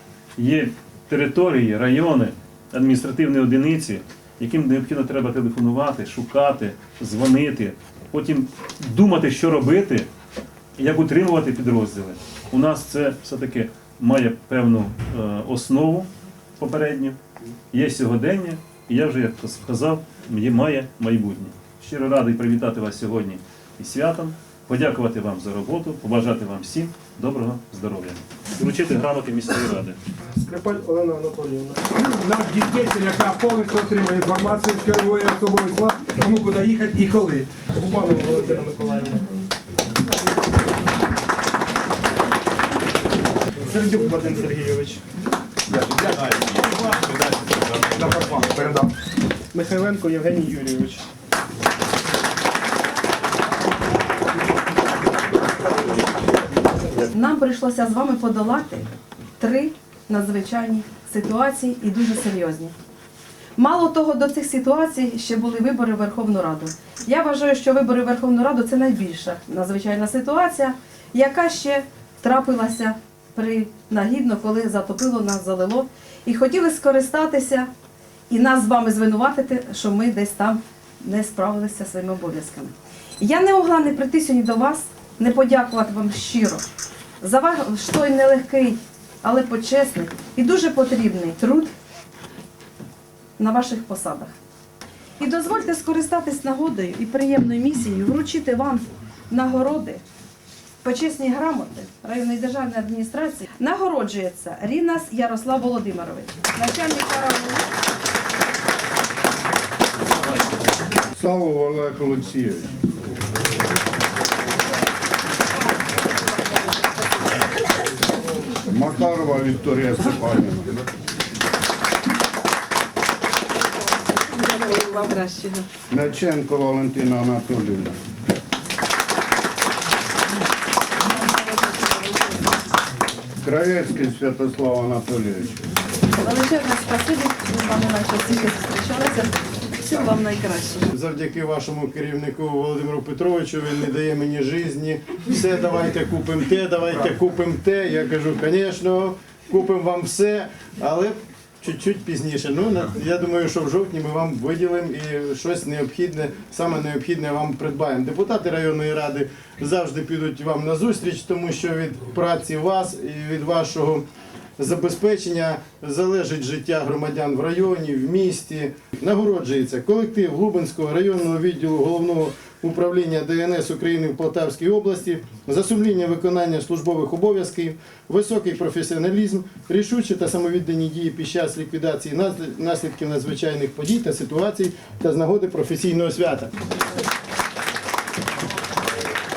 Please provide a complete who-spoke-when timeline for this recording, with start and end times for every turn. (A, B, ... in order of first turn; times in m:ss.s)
0:00.4-0:10.1 A
0:10.8-0:17.2 A
0:17.7-0:30.0 A
0:30.3-0:31.8 B
0:32.0-0:37.7 C
0:37.7-0:39.4 B
0:43.6-0:45.0 B
0:45.7-0:48.9 C
0:49.5-0:51.0 B
0:57.0-1:02.7 D
1:03.6-1:17.7 D
1:18.3-1:26.6 D
1:27.2-1:31.7 D
1:33.4-1:34.3 D
1:35.2-1:40.0 D
1:40.8-1:47.7 D
1:51.2-1:52.7 E
1:58.7-2:00.8 E
2:04.3-2:05.7 D
2:05.9-2:08.0 E
2:13.4-2:15.6 E
2:16.2-2:20.9 D
2:20.9-2:44.0 F
2:44.6-3:06.5 F